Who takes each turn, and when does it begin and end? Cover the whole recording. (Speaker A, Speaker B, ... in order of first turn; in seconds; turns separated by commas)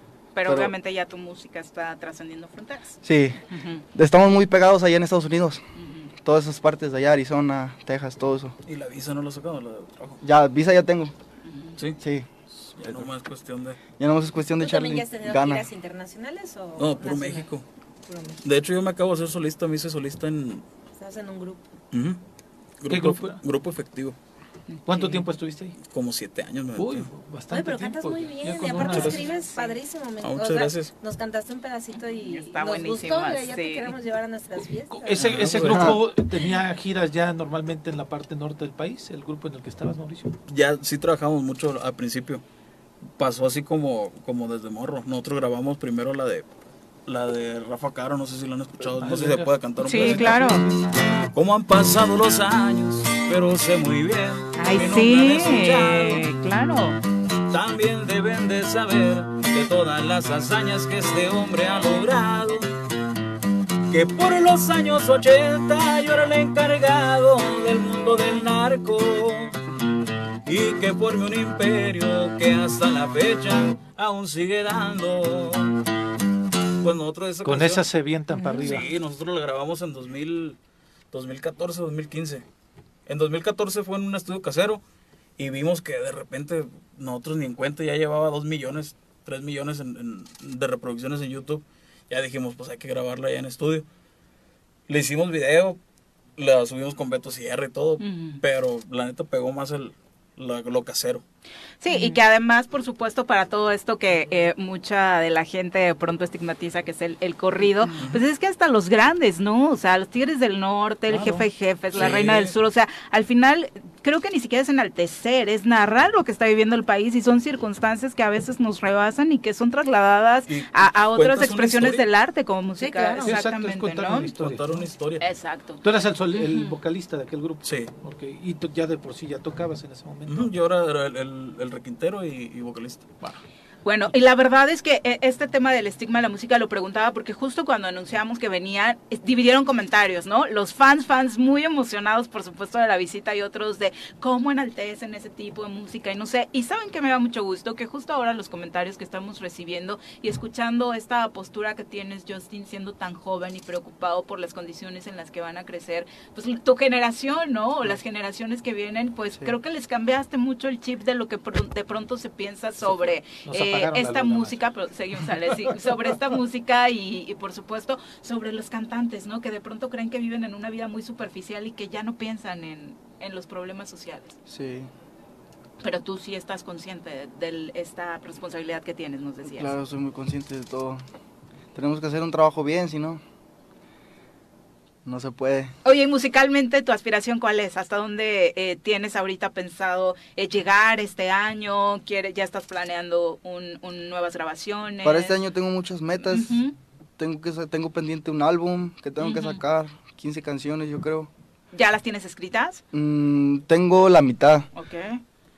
Speaker A: 0.3-3.8, Speaker B: 0.4-0.7, Speaker B: 3.0-3.4, Speaker B: 3.9-5.6, Speaker A: 5.8-6.1, Speaker B: 6.2-8.5, Speaker C: 8.7-10.2, Speaker B: 10.2-11.1, Speaker A: 11.4-11.8, Speaker B: 12.0-12.3, Speaker C: 12.6-13.8, Speaker B: 14.0-15.7, Speaker D: 14.6-17.5, Speaker C: 16.8-17.6, Speaker D: 18.1-18.4, Speaker C: 18.4-20.6, Speaker D: 20.9-21.7, Speaker C: 21.9-22.2, Speaker C: 22.8-24.1, Speaker E: 22.9-23.4, Speaker A: 24.7-25.2, Speaker E: 24.9-25.8, Speaker C: 25.8-27.1, Speaker E: 26.8-29.2, Speaker D: 27.5-35.8, Speaker C: 28.9-29.1, Speaker A: 29.1-29.8, Speaker C: 30.2-30.9, Speaker A: 32.2-33.9, Speaker E: 34.9-40.4, Speaker C: 35.2-36.0, Speaker B: 35.5-36.0, Speaker C: 40.5-42.4, Speaker C: 43.2-46.5, Speaker C: 47.0-50.5, Speaker E: 48.9-50.8, Speaker A: 49.8-50.6, Speaker C: 51.3-56.2, Speaker A: 54.5-57.0, Speaker C: 57.5-62.7, Speaker C: 63.9-69.6, Speaker C: 70.4-75.8, Speaker C: 76.8-77.8, Speaker E: 77.4-78.9, Speaker A: 78.3-78.7, Speaker C: 78.6-80.6, Speaker C: 81.1-82.4, Speaker C: 83.1-84.8, Speaker C: 85.4-93.8, Speaker C: 94.9-95.8, Speaker C: 96.4-101.2, Speaker A: 98.0-98.4, Speaker A: 101.8-124.3, Speaker C: 107.9-108.2, Speaker E: 111.1-111.5, Speaker C: 111.9-112.5, Speaker C: 120.5-122.0, Speaker D: 122.8-123.3, Speaker E: 123.2-124.9, Speaker C: 124.2-125.2, Speaker A: 125.2-126.7, Speaker E: 125.8-130.5, Speaker C: 127.6-127.9, Speaker C: 130.3-133.4, Speaker A: 133.8-174.3, Speaker E: 162.8-164.6, Speaker E: 165.2-166.1, Speaker B: 174.5-174.9, Speaker A: 175.8-179.8, Speaker B: 179.4-181.0, Speaker B: 181.7-183.2, Speaker B: 185.0-185.7, Speaker A: 185.8-195.4, Speaker B: 195.0-196.6, Speaker A: 196.3-196.7, Speaker B: 197.2-201.3, Speaker A: 199.2-199.6, Speaker A: 201.7-202.8, Speaker B: 202.9-204.7, Speaker A: 204.7-205.2